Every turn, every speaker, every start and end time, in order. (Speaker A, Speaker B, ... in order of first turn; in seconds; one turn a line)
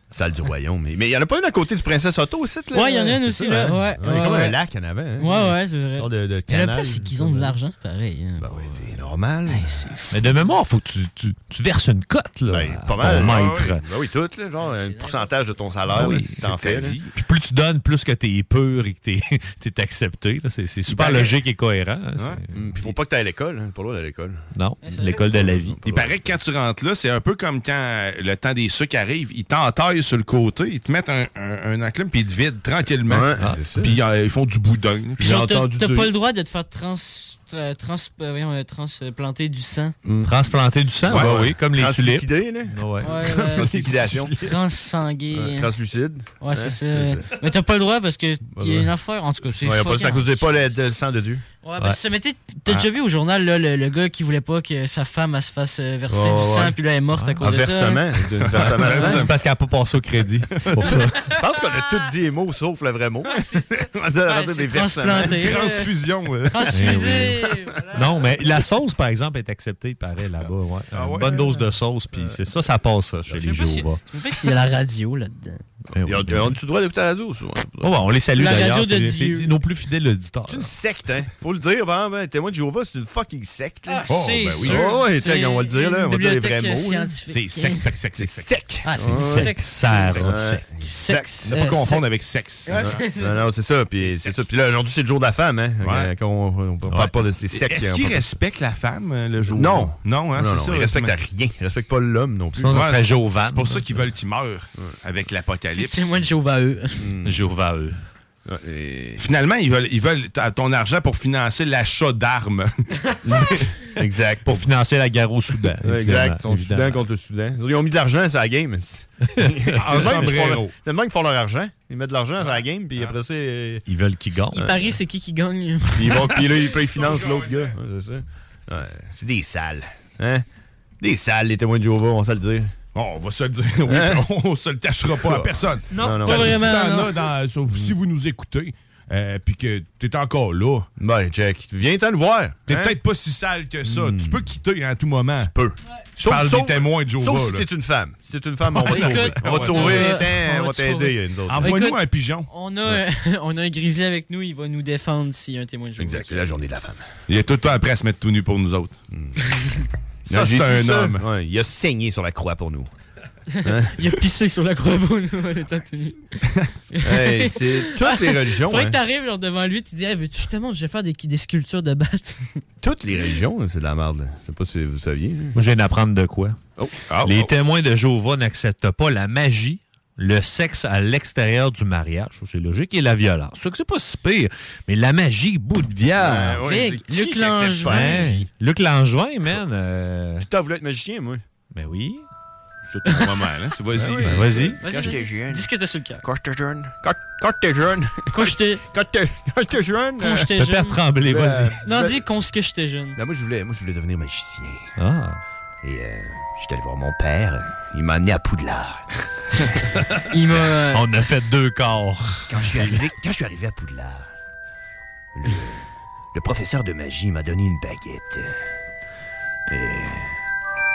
Speaker A: 0.1-7.5
Speaker B: 2.7-4.6
Speaker B: 5.2-8.8
Speaker A: 8.4-9.9
Speaker B: 9.5-10.3
Speaker C: 10.1-13.8
Speaker A: 12.5-17.0
Speaker D: 13.0-13.8
Speaker B: 14.6-15.3
Speaker C: 15.9-22.9
Speaker D: 16.5-17.1
Speaker D: 20.9-21.3
Speaker A: 22.5-24.5
Speaker C: 24.5-25.8
Speaker B: 24.8-25.3
Speaker A: 25.3-26.3
Speaker D: 25.8-35.3
Speaker A: 33.1-33.9
Speaker C: 33.4-33.7
Speaker A: 35.2-36.1
Speaker B: 35.2-40.0
Speaker A: 40.0-40.3
Speaker C: 40.2-43.6
Speaker D: 41.0-41.5
Speaker A: 41.0-44.5
Speaker B: 43.0-43.7
Speaker D: 43.6-44.3
Speaker B: 44.3-45.7
Speaker A: 45.3-47.3
Speaker B: 46.4-50.8
Speaker A: 48.5-48.9
Speaker A: 49.6-51.4
Speaker B: 51.6-58.0
Speaker A: 56.1-56.8
Speaker C: 57.1-57.4
Speaker A: 57.4-59.3
Speaker D: 58.4-59.4
Speaker C: 58.6-61.2
Speaker D: 60.5-61.0
Speaker A: 61.2-65.5
Speaker B: 63.3-65.9
Speaker D: 65.2-67.1
Speaker B: 66.4-68.3
Speaker C: 66.7-74.0
Speaker D: 70.9-71.5
Speaker B: 73.4-75.6
Speaker C: 75.9-76.6
Speaker A: 76.0-78.0
Speaker C: 77.8-80.7
Speaker B: 78.3-79.5
Speaker A: 80.5-84.1
Speaker B: 83.9-87.9
Speaker D: 84.1-84.9
Speaker A: 84.6-87.1
Speaker D: 87.3-88.6
Speaker A: 88.2-89.6
Speaker B: 88.8-90.3
Speaker C: 89.0-90.6
Speaker A: 90.1-91.3
Speaker B: 90.8-92.0
Speaker D: 91.4-93.0
Speaker B: 92.6-93.4
Speaker A: 92.7-98.3
Speaker D: 94.0-94.3
Speaker D: 95.8-96.1
Speaker C: 96.9-97.1
Speaker D: 97.5-101.2
Speaker A: 99.5-102.9
Speaker C: 102.6-104.1
Speaker D: 102.7-106.2
Speaker B: 105.7-107.1
Speaker A: 107.0-107.5
Speaker C: 107.2-108.0
Speaker A: 108.5-109.2
Speaker D: 109.2-113.9
Speaker A: 113.2-114.7
Speaker C: 114.4-117.0
Speaker A: 115.8-123.8
Speaker C: 119.4-120.2
Speaker D: 119.7-120.7
Speaker C: 123.9-124.9
Speaker B: 124.5-126.4
Speaker A: 126.0-130.4
Speaker D: 126.7-127.7
Speaker A: 131.0-132.7
Speaker D: 132.9-140.9
Speaker A: 133.9-134.2
Speaker A: 135.2-136.7
Speaker B: 135.9-137.2
Speaker A: 141.0-143.0
Speaker D: 142.7-145.5
Speaker A: 143.8-144.5
Speaker A: 145.4-151.8
Speaker D: 146.2-147.7
Speaker D: 148.7-150.2
Speaker B: 148.8-156.5
Speaker D: 151.5-152.5
Speaker A: 156.0-157.0
Speaker D: 157.3-158.9
Speaker A: 159.1-159.4
Speaker D: 160.3-161.2
Speaker A: 160.3-162.9
Speaker B: 163.5-166.4
Speaker A: 163.6-163.9
Speaker D: 166.5-166.7
Speaker B: 166.9-172.6
Speaker A: 167.0-169.0
Speaker A: 172.8-175.6
Speaker C: 175.5-176.6
Speaker D: 177.1-177.5
Speaker C: 177.2-186.9
Speaker A: 186.2-188.5
Speaker B: 186.6-188.4
Speaker C: 187.8-190.4
Speaker A: 190.4-191.4
Speaker C: 191.7-192.2
Speaker A: 192.9-193.3
Speaker D: 193.0-194.7
Speaker A: 193.9-195.7
Speaker C: 194.2-194.8
Speaker B: 194.8-196.2
Speaker A: 196.2-200.5
Speaker B: 198.3-198.8
Speaker B: 200.2-201.0
Speaker C: 200.5-201.8
Speaker A: 201.2-202.2
Speaker B: 201.8-203.2
Speaker A: 203.2-204.9
Speaker C: 205.0-205.4
Speaker A: 205.8-209.1
Speaker B: 210.3-211.0
Speaker C: 210.9-213.0
Speaker A: 212.5-214.3
Speaker A: 215.3-218.6
Speaker A: 219.7-220.4